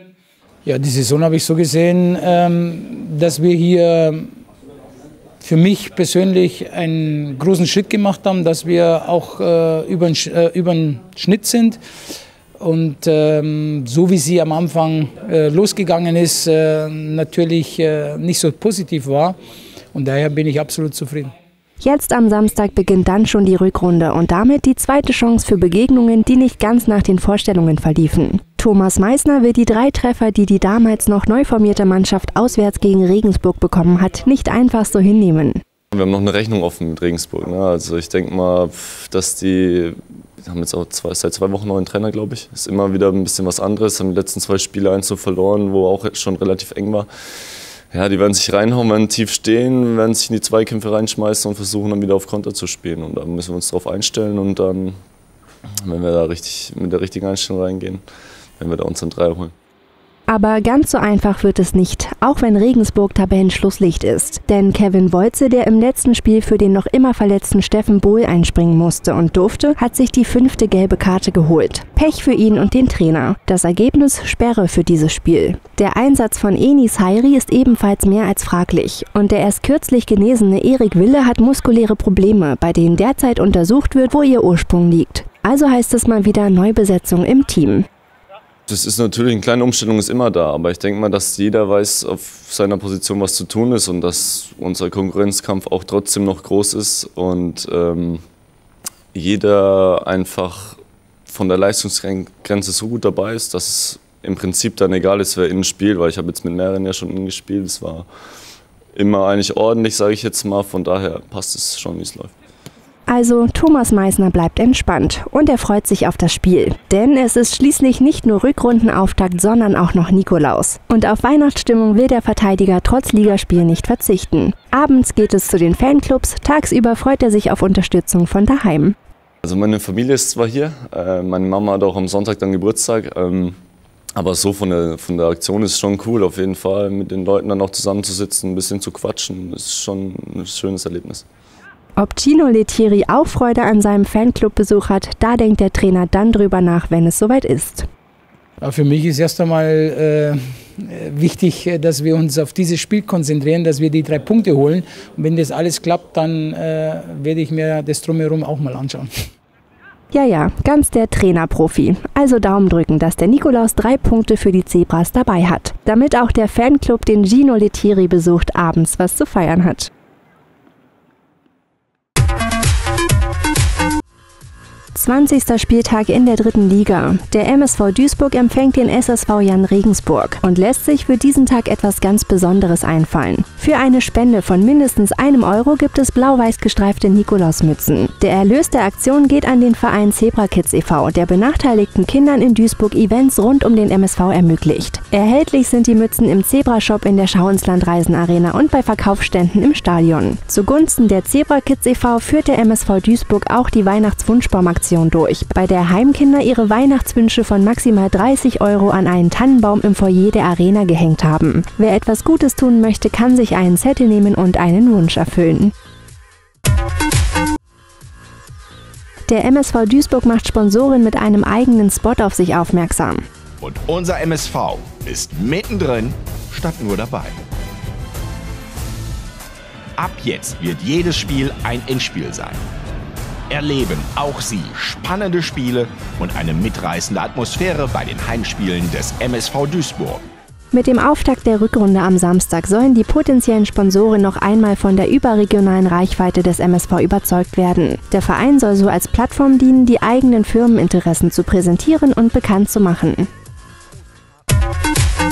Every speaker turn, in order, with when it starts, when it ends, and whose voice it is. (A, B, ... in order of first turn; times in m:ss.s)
0:00.6-0:04.4 A
0:05.4-0:11.8 A
0:12.6-0:19.4 A
0:19.9-0:21.3 A
0:21.8-0:35.6 B
0:35.9-0:47.1 C
0:47.9-0:55.0 C
0:55.8-0:58.0 C
0:58.6-0:59.5 C
1:00.3-1:27.9 B
1:28.7-1:38.2 C
1:39.1-1:48.1 C
1:49.0-1:52.3 C
1:53.1-2:09.0 B
2:09.4-2:13.6 C
2:14.2-2:21.2 C
2:22.0-2:27.9 B
2:28.6-2:39.1 A
2:40.1-2:49.9 B
2:54.9-3:35.7 B
3:39.3-3:43.2 B
3:43.6-3:47.4 D
3:50.0-3:52.6 D
3:53.5-4:00.2 D
4:00.7-4:13.3 B